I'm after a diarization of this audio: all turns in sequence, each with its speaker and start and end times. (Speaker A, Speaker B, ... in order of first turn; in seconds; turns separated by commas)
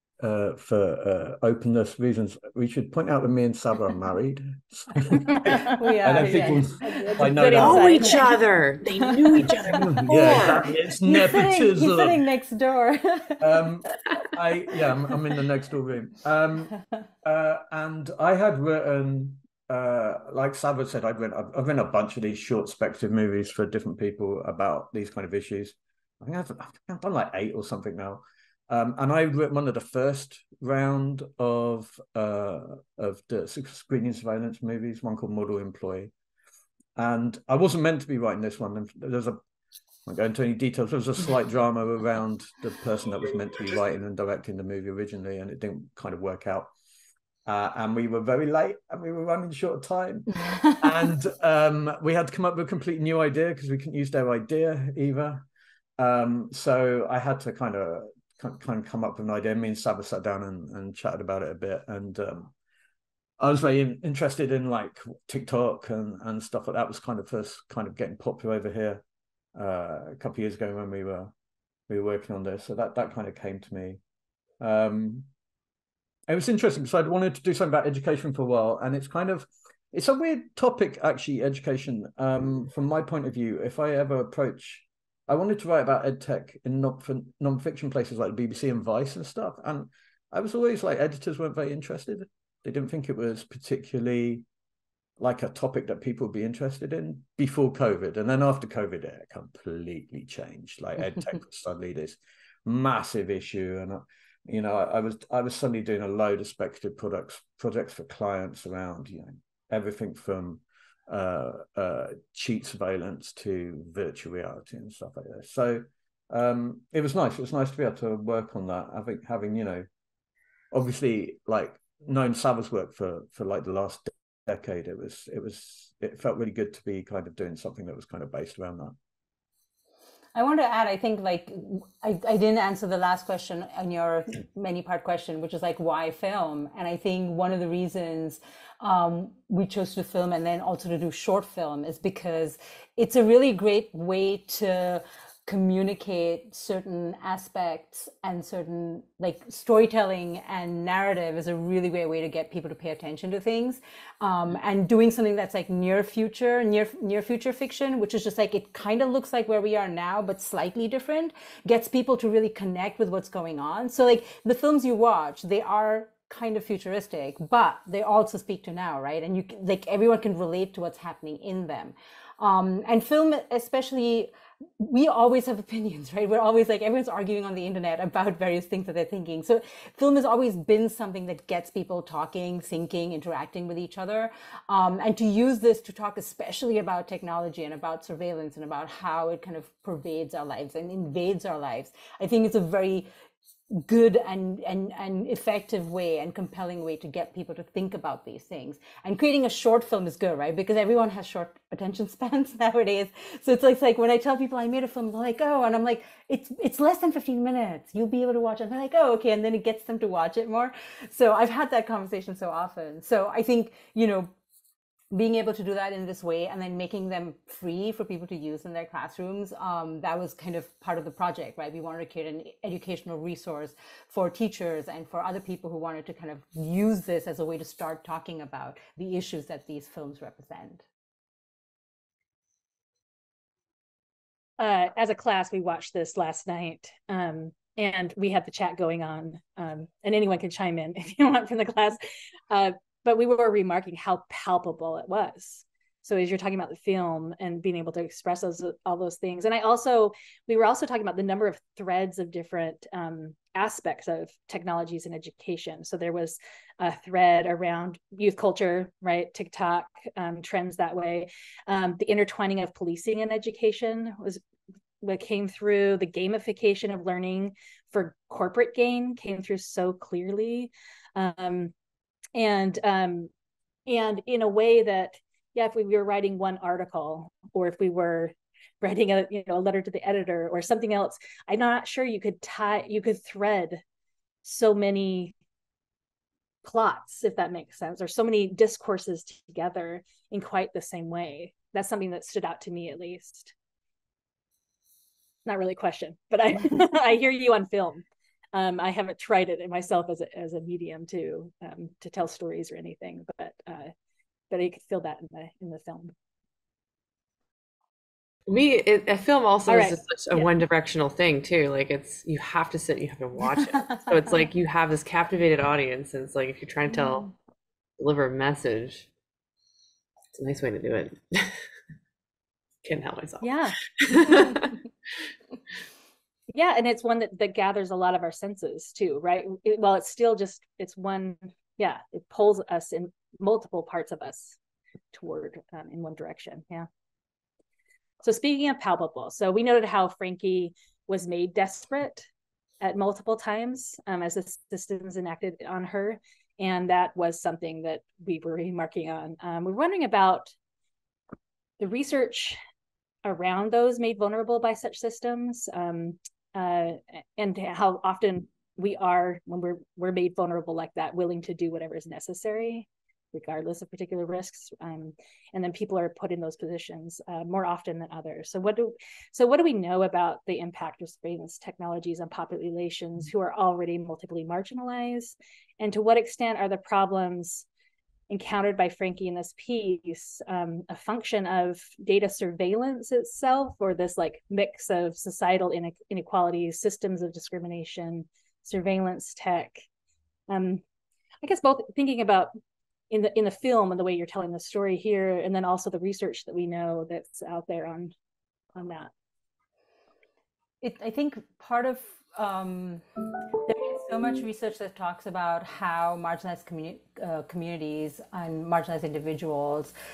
Speaker A: 0.2-8.1, Speaker B: 5.5-5.8, Speaker C: 5.5-8.2, Speaker B: 6.3-8.4, Speaker D: 7.5-10.9, Speaker C: 9.1-10.3, Speaker A: 9.4-12.2, Speaker C: 11.0-13.7, Speaker A: 13.4-36.1, Speaker A: 37.0-39.4, Speaker A: 40.0-46.7, Speaker A: 47.5-55.4, Speaker C: 50.4-51.1, Speaker A: 56.0-62.5, Speaker A: 63.4-69.0, Speaker A: 69.5-71.3, Speaker A: 71.9-74.0, Speaker A: 74.6-75.3, Speaker A: 76.3-94.4, Speaker A: 95.2-119.9, Speaker A: 120.7-128.9, Speaker C: 130.3-193.1, Speaker C: 193.7-214.3, Speaker C: 215.1-230.8, Speaker B: 234.6-242.0, Speaker B: 242.5-264.4, Speaker B: 265.0-271.7, Speaker B: 272.3-273.3, Speaker B: 273.9-283.8, Speaker B: 284.4-285.3, Speaker B: 286.6-293.5, Speaker B: 295.4-303.9, Speaker B: 304.5-306.1, Speaker D: 308.5-317.3, Speaker B: 309.7-310.5, Speaker D: 318.0-319.1, Speaker D: 320.3-321.6, Speaker D: 322.8-324.8, Speaker B: 323.4-323.8, Speaker B: 326.5-334.6, Speaker B: 335.1-336.9, Speaker B: 338.2-342.3, Speaker B: 342.8-350.5, Speaker B: 351.8-352.6, Speaker B: 353.2-377.6, Speaker B: 378.3-389.8, Speaker B: 390.5-390.8, Speaker B: 391.4-392.5, Speaker B: 393.1-398.1, Speaker B: 398.7-399.1, Speaker C: 400.8-403.0, Speaker C: 403.6-409.9